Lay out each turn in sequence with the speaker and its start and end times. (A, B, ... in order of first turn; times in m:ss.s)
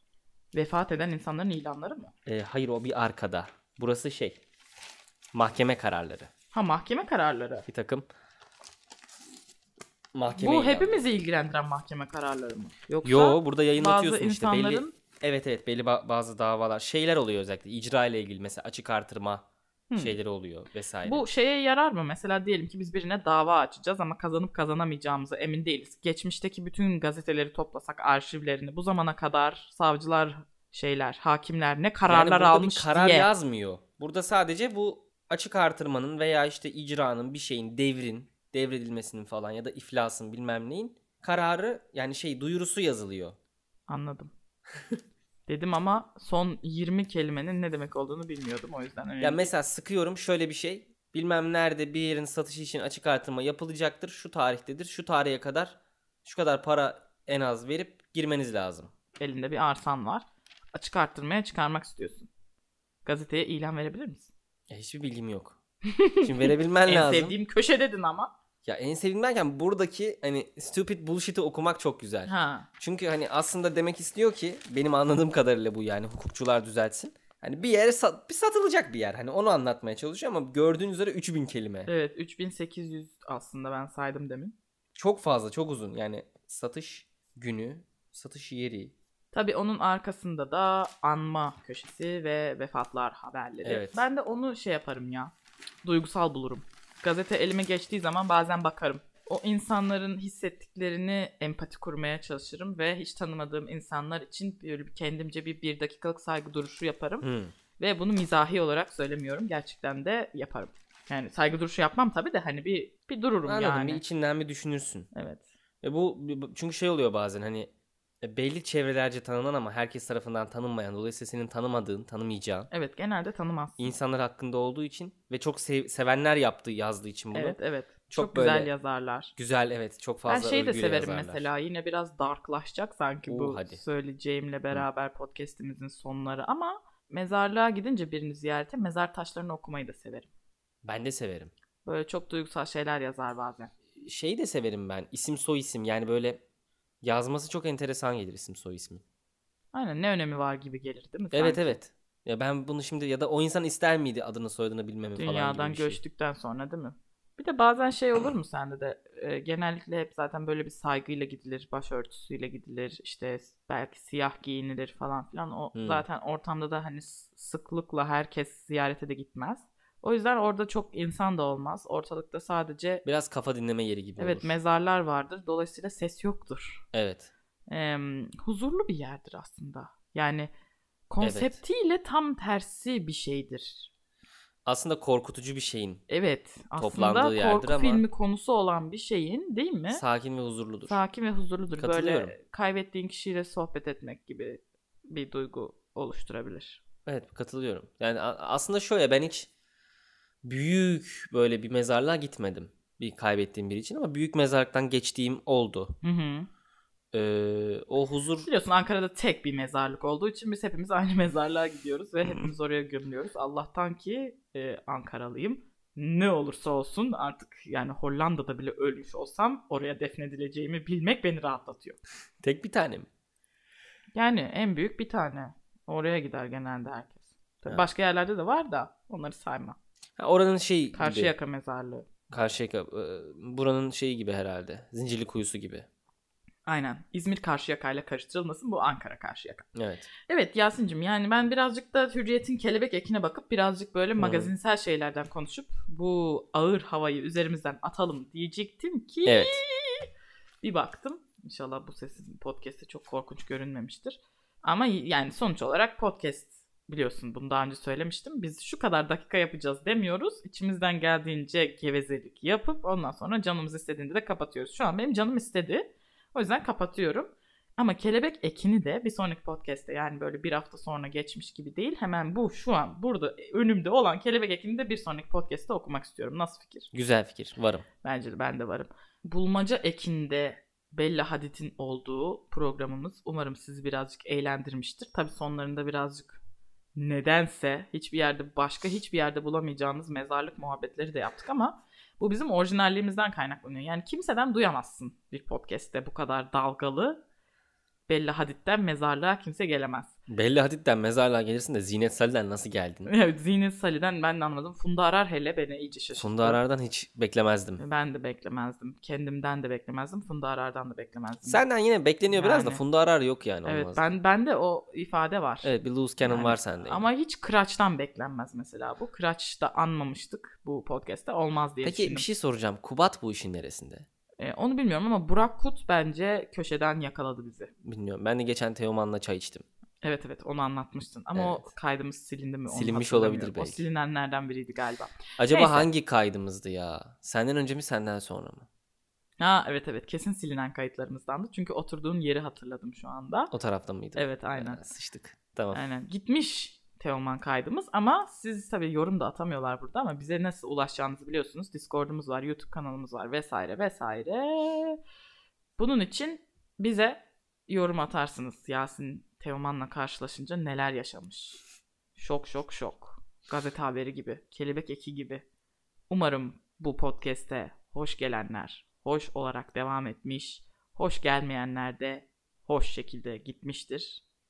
0:00.5-0:02.1 A
0:02.3-0:04.4 B
0:05.3-0:06.3 B
0:06.5-0:07.7 A
0:07.7-0:08.1 B
0:10.1-0:11.0 B
0:10.3-0:14.9 A
0:13.0-0:19.4 B
0:19.9-0:20.2 A
0:20.0-0:21.2 B
0:21.0-0:33.3 A
0:32.1-0:43.4 B
0:43.9-0:44.3 A
0:45.5-0:49.5 A
0:49.2-0:58.9 B
0:59.2-1:02.3 A
1:03.0-1:04.3 A
1:04.7-1:05.6 B
1:05.9-1:08.3 A
1:06.2-1:07.4 B
1:08.6-1:21.9 B
1:12.3-1:12.7 A
1:21.9-1:24.6 A
1:25.0-1:28.9 B
1:29.3-1:35.3 A
1:33.6-1:34.0 B
1:35.8-1:47.3 A
1:47.2-1:47.5 B
1:47.8-1:54.0 A
1:53.5-1:55.1 B
1:55.1-1:55.4 A
1:55.8-1:57.7 B
1:58.2-2:02.7 B
2:02.7-2:03.9 A
2:03.8-2:07.6 B
2:07.3-2:09.3 A
2:08.1-2:08.7 B
2:09.4-2:11.5 B
2:10.3-2:20.3 A
2:13.3-2:13.8 B
2:20.8-2:21.5 B
2:21.8-2:23.7 A
2:24.0-2:26.4 B
2:27.0-2:29.0 B
2:29.7-2:31.8 A
2:31.3-2:36.0 B
2:35.2-2:53.0 A
2:45.8-2:46.0 B
2:53.0-2:54.6 B
2:54.2-2:56.8 A
2:56.9-2:57.3 B
2:57.7-3:00.5 A
3:01.1-3:03.9 A
3:01.2-3:01.6 B
3:04.6-3:06.0 B
3:06.1-3:10.0 A
3:06.8-3:08.0 B
3:09.9-3:11.0 B
3:10.9-3:16.8 A
3:11.8-3:12.4 B
3:17.1-3:19.5 B
3:20.4-3:26.0 B
3:26.0-3:26.5 A
3:27.1-3:28.5 B
3:28.4-3:42.0 A
3:42.4-3:43.1 B
3:44.2-3:49.8 A
3:50.2-3:51.3 B
3:50.9-3:52.1 A
3:52.3-3:55.9 B
3:56.7-3:59.7 A
3:59.8-4:00.1 B
4:00.3-4:10.1 A
4:04.2-4:04.5 B
4:09.3-4:09.6 B
4:10.6-4:36.9 A
4:36.9-4:37.9 B
4:38.0-4:46.4 A
4:47.0-4:57.2 A
4:58.1-5:00.1 A
5:00.3-5:03.1 B
5:03.1-5:06.6 A
5:06.2-5:07.8 B
5:07.8-5:11.6 A
5:11.4-5:14.0 B
5:12.3-5:12.8 A
5:13.6-5:15.7 A
5:15.6-5:17.1 B
5:16.2-5:22.3 A
5:21.8-5:24.1 B
5:24.4-5:27.7 A
5:27.8-5:29.7 B
5:30.0-5:35.9 A
5:31.4-5:31.7 B
5:32.7-5:33.8 B
5:35.4-5:38.7 B
5:39.4-5:43.5 A
5:43.5-5:45.8 B
5:44.2-5:44.8 A
5:45.7-5:55.0 A
5:55.8-6:01.6 A
6:02.2-6:05.4 A
6:06.1-6:14.2 A